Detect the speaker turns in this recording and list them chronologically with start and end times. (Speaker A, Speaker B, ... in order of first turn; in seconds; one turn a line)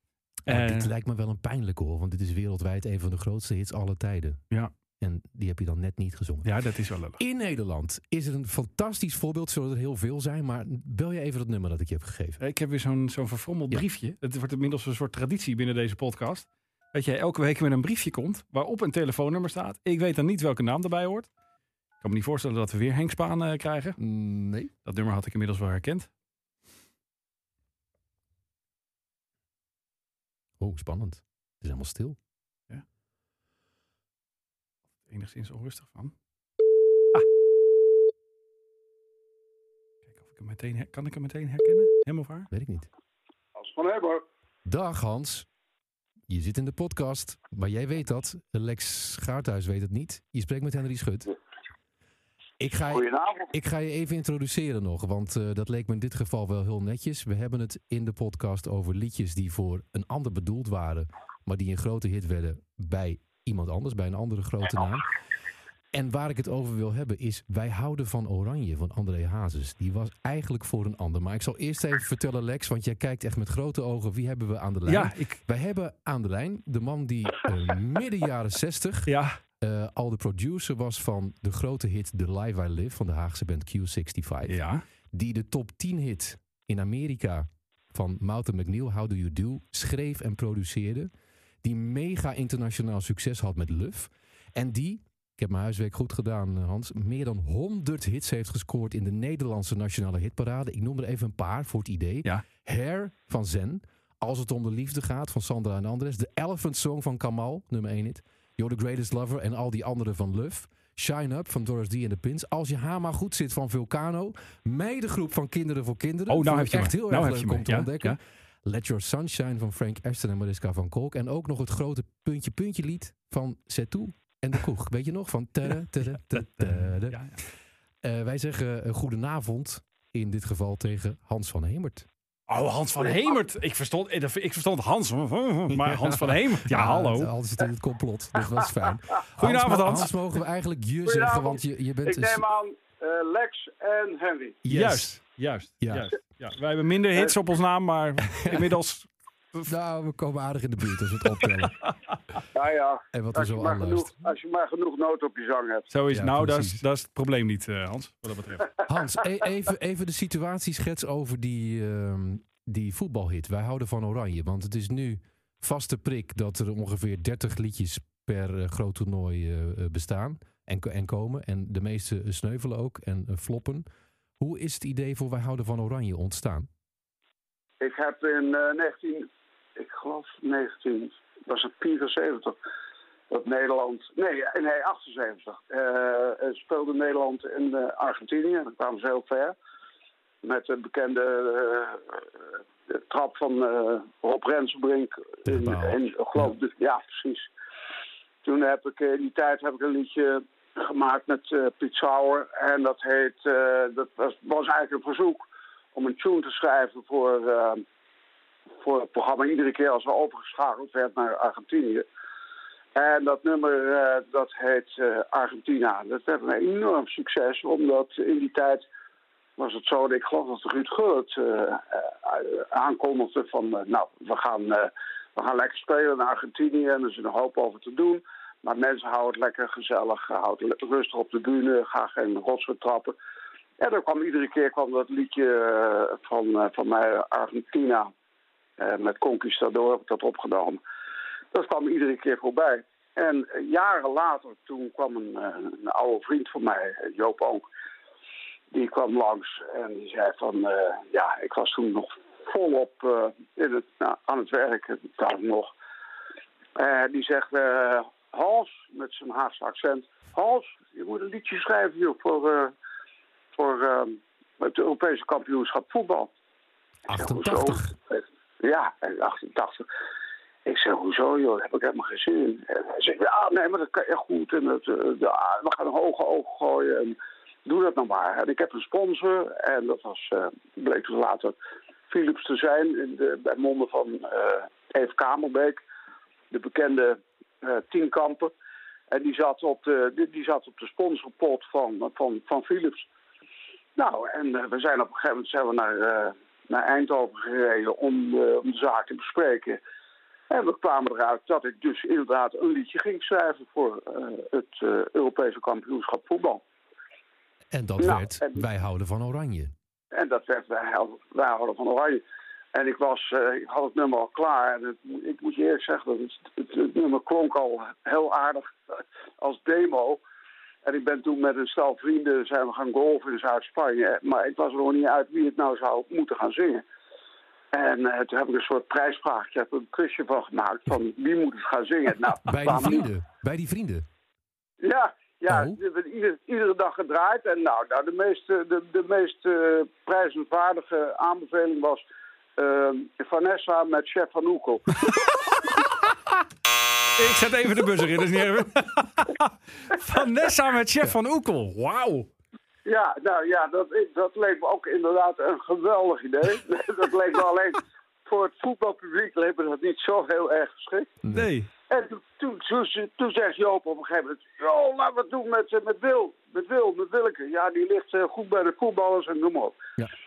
Speaker A: 0.5-4.4
Speaker B: 0.5-0.9
Speaker A: 5.0-6.5
Speaker B: 6.5-7.2
Speaker A: 7.2-12.4
Speaker B: 12.4-21.3
Speaker B: 22.0-24.0
Speaker A: 24.0-24.7
Speaker B: 24.9-26.1
Speaker A: 30.6-32.2
Speaker B: 35.1-36.1
Speaker B: 40.2-42.5
Speaker A: 42.5-42.9
Speaker C: 43.6-44.2
Speaker A: 44.7-45.5
Speaker A: 46.3-51.3
Speaker A: 52.6-65.1
Speaker C: 52.9-53.5
Speaker A: 65.9-91.1
Speaker B: 74.9-75.4
Speaker B: 79.1-79.3
Speaker B: 84.5-84.8
Speaker A: 91.6-127.3
Speaker B: 116.3-118.2
Speaker B: 126.4-127.4
Speaker A: 128.0-132.1
Speaker B: 132.5-137.3
Speaker A: 135.8-142.5
Speaker B: 139.4-140.1
Speaker C: 141.1-144.6
Speaker A: 144.7-145.1
Speaker B: 144.7-149.7
Speaker A: 145.8-146.1
Speaker A: 148.4-148.7
Speaker A: 149.7-151.8
Speaker B: 151.4-151.9
Speaker C: 152.5-155.9
Speaker A: 153.1-154.3
Speaker B: 155.9-158.8
Speaker A: 156.1-156.8
Speaker A: 158.9-173.9
Speaker A: 174.4-176.7
Speaker C: 177.8-182.6
Speaker C: 183.3-189.6
Speaker C: 190.4-192.2
Speaker C: 192.9-197.5
Speaker A: 195.5-196.5
Speaker C: 198.4-207.8
Speaker C: 208.8-212.1
Speaker C: 212.9-218.9
Speaker C: 219.6-233.2
Speaker C: 233.8-238.1
Speaker C: 238.8-240.8
Speaker C: 241.5-247.7
Speaker C: 248.7-255.7
Speaker C: 256.8-262.7
Speaker C: 263.6-266.3
Speaker A: 267.1-267.9
Speaker C: 267.1-269.9
Speaker C: 270.7-281.6
Speaker C: 282.1-285.8
Speaker C: 286.5-288.5
Speaker C: 289.1-293.1
Speaker C: 294.0-299.8
Speaker C: 300.5-306.6
Speaker A: 307.7-309.7
Speaker C: 308.0-308.6
Speaker C: 310.1-312.2
Speaker C: 312.8-320.2
Speaker C: 320.9-326.8
Speaker C: 327.7-333.0
Speaker A: 332.4-334.1
Speaker C: 334.8-342.0
Speaker A: 335.5-335.8
Speaker C: 342.6-344.9
Speaker B: 347.2-352.3
Speaker C: 352.9-361.1
Speaker A: 361.2-361.5
Speaker B: 361.3-361.7
Speaker C: 361.9-369.8